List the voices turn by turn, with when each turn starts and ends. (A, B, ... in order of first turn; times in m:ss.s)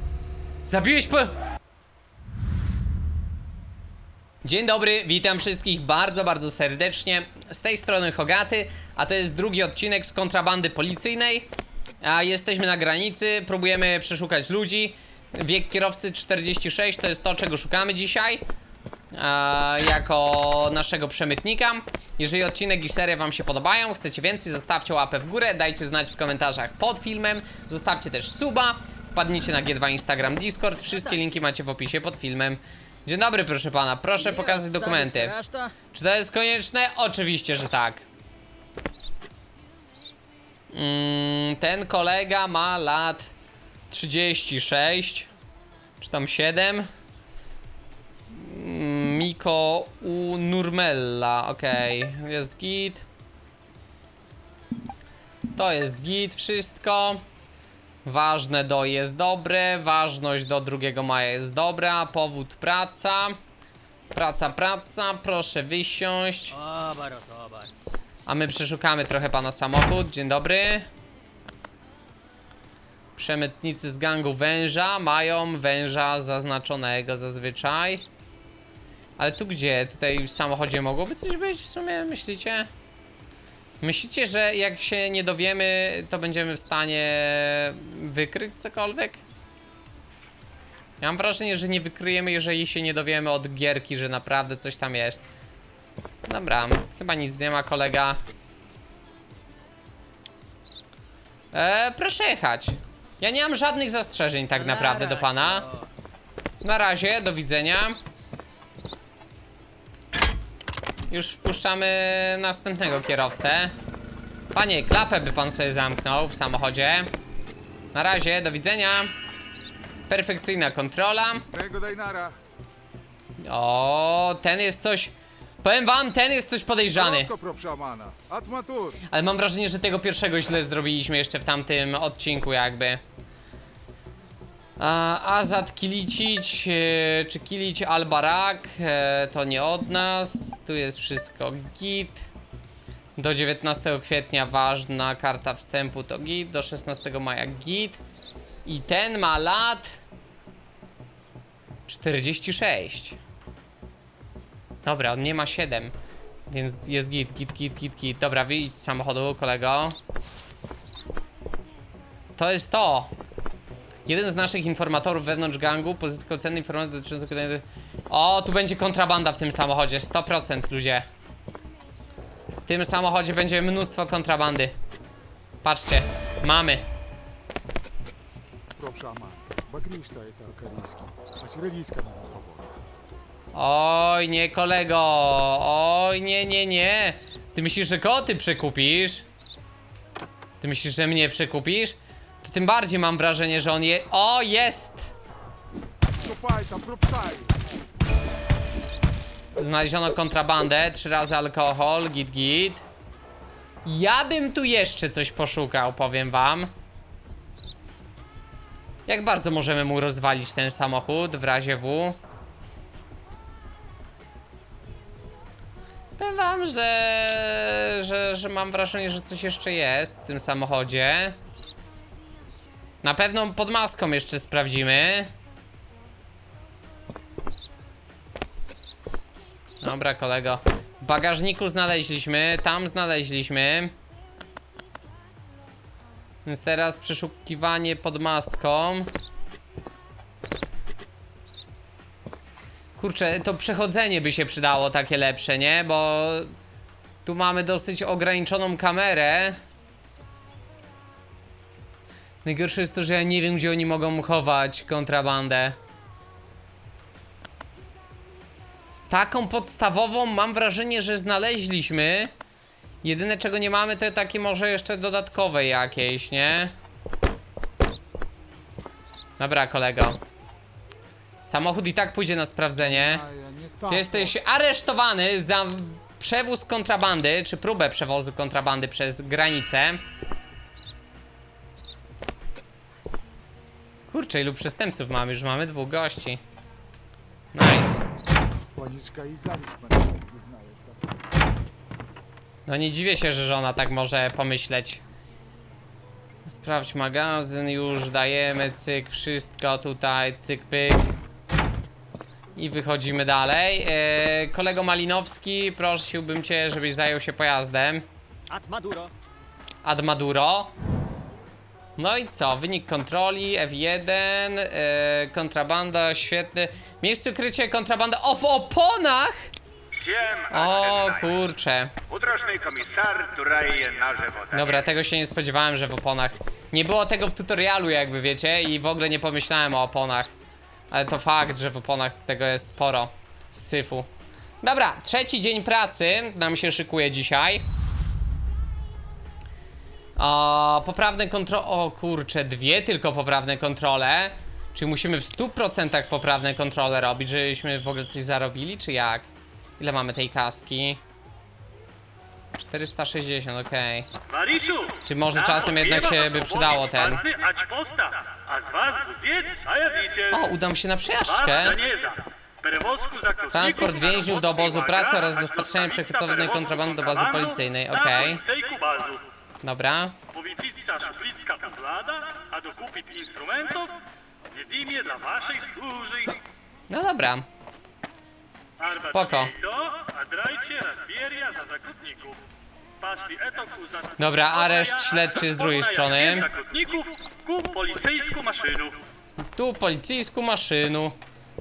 0:00.6-0:01.3 A
0:04.4-0:11.5 A
0:12.0-0:18.4 A
0:19.1-0:35.4 A
0:34.2-0:35.7 B
0:35.9-0:38.0 A
0:40.7-0:43.3 A
0:43.9-0:45.3 A
0:46.0-0:46.9 A
0:48.3-0:53.0 A
0:55.5-0:57.2 A
0:58.0-1:03.4 A
1:04.1-1:06.6 A
1:06.5-1:07.7 B
1:08.2-1:10.9 A
1:13.2-1:18.0 A
1:19.2-1:22.7 A
1:23.8-1:29.2 A
1:31.0-1:35.2 A
1:36.2-1:38.2 A
1:41.5-1:45.6 A
1:44.5-1:45.9 B
1:46.6-1:48.0 A
1:51.1-1:53.7 A
1:54.5-1:57.1 A
1:57.9-1:59.1 A
2:00.1-2:01.4 A
2:01.4-2:02.3 C
2:03.4-2:07.3 A
2:06.9-2:09.0 C
2:09.1-2:13.0 A
2:14.8-2:22.3 A
2:23.2-2:28.0 A
2:28.6-2:30.0 A
2:31.9-2:33.2 A
2:34.8-2:35.9 A
2:36.5-2:40.0 A
2:42.4-2:43.1 A
2:44.0-2:51.1 A
2:52.6-2:54.7 A
2:55.6-2:56.8 A
2:58.8-3:02.7 C
3:03.5-3:09.2 A
3:10.6-3:15.1 A
3:16.2-3:17.5 C
3:19.6-3:22.8 A
3:23.8-3:26.7 A
3:29.1-3:32.2 A
3:36.2-3:41.4 A
3:43.0-3:45.3 A
3:49.8-3:53.9 A
3:56.4-3:59.1 A
4:03.0-4:06.5 A
4:07.2-4:09.6 A
4:12.4-4:15.8 A
4:19.1-4:22.3 A
4:23.0-4:26.7 A
4:29.4-4:30.2 A
4:31.4-4:33.2 A
4:32.8-4:34.3 C
4:33.9-4:40.0 A
4:44.1-4:46.4 A
4:47.5-4:48.0 A
4:48.7-4:51.0 C
4:52.6-4:55.0 A
4:56.4-5:01.1 A
5:02.6-5:08.0 A
5:08.5-5:09.1 B
5:09.8-5:10.7 A
5:12.0-5:19.5 A
5:20.0-5:21.2 B
5:20.5-5:21.9 A
5:22.1-5:24.8 B
5:24.5-5:30.3 A
5:30.9-5:34.1 A
5:34.6-5:37.6 A
5:40.2-5:49.3 A
5:49.8-5:51.0 A
5:52.6-5:54.1 A
5:54.3-6:00.4 D
5:55.0-5:57.2 A
6:00.3-6:01.8 A
6:01.2-6:09.3 D
6:03.5-6:08.4 A
6:09.6-6:10.2 A
6:10.3-6:14.0 D
6:14.5-6:16.4 D
6:16.9-6:17.4 A
6:18.8-6:22.4 D
6:18.9-6:19.5 A
6:23.0-6:29.0 D
6:24.2-6:26.5 A
6:29.5-6:31.2 A